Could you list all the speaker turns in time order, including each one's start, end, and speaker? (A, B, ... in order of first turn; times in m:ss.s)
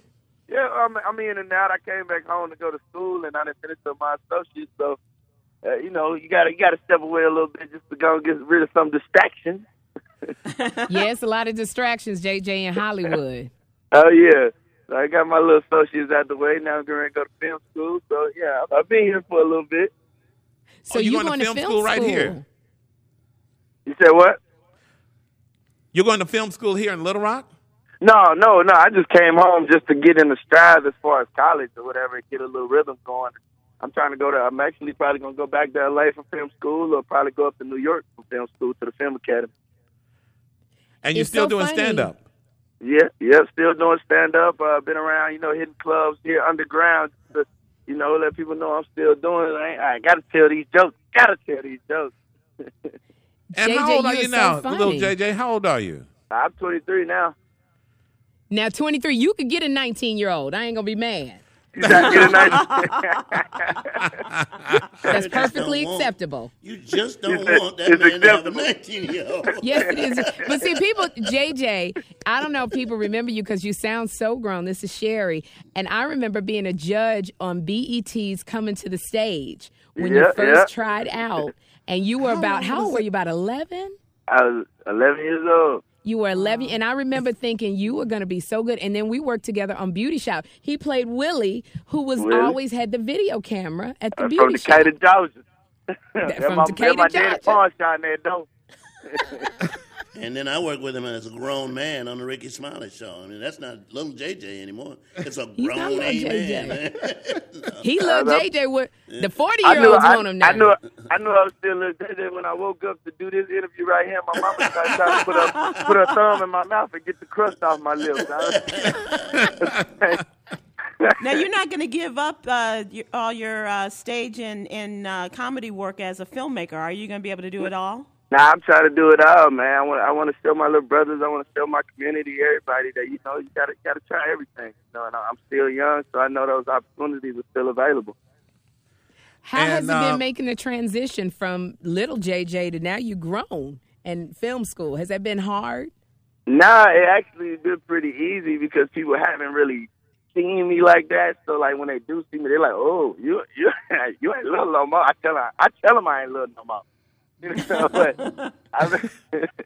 0:00.5-0:05.0 A
0:05.6-0:09.6 A
0:10.6-0:10.9 B
0:10.9-0:13.5 C
0:13.9-0:19.9 A
0:20.8-0:22.4 C
0:20.9-0:22.3 D
0:23.8-0:24.4 A
0:25.9-0:27.5 D
0:28.0-0:39.5 A
0:41.0-0:42.2 D
0:41.1-0:42.1 C
0:42.8-0:52.1 A
0:52.7-0:52.9 A
0:53.5-0:55.1 C
0:53.5-0:56.0 D
0:56.3-0:57.3 A
0:58.5-1:01.4 C
1:01.7-1:03.9 A
1:01.8-1:02.6 D
1:02.2-1:02.6 B
1:04.0-1:05.1 D
1:05.0-1:06.5 C
1:05.1-1:10.8 E
1:07.2-1:08.7 A
1:09.6-1:23.9 C
1:20.0-1:20.7 A
1:22.2-1:23.0 D
1:24.3-1:25.8 A
1:26.0-1:34.9 C
1:32.2-1:32.6 A
1:34.2-1:35.4 A
1:36.1-1:38.5 A
1:36.2-1:37.6 C
1:39.1-1:39.5 A
1:40.1-1:47.9 E
1:45.6-1:46.8 C
1:47.8-1:50.7 C
1:48.0-1:48.4 A
1:49.1-1:49.3 E
1:49.6-1:59.0 A
1:54.6-1:55.9 E
1:58.1-1:59.7 E
1:59.6-2:00.2 A
2:01.2-2:08.1 B
2:08.3-2:18.1 A
2:19.4-2:25.9 C
2:19.5-2:20.2 D
2:26.5-2:36.8 A
2:37.4-2:38.2 A
2:37.5-2:38.3 B
2:38.7-2:39.5 A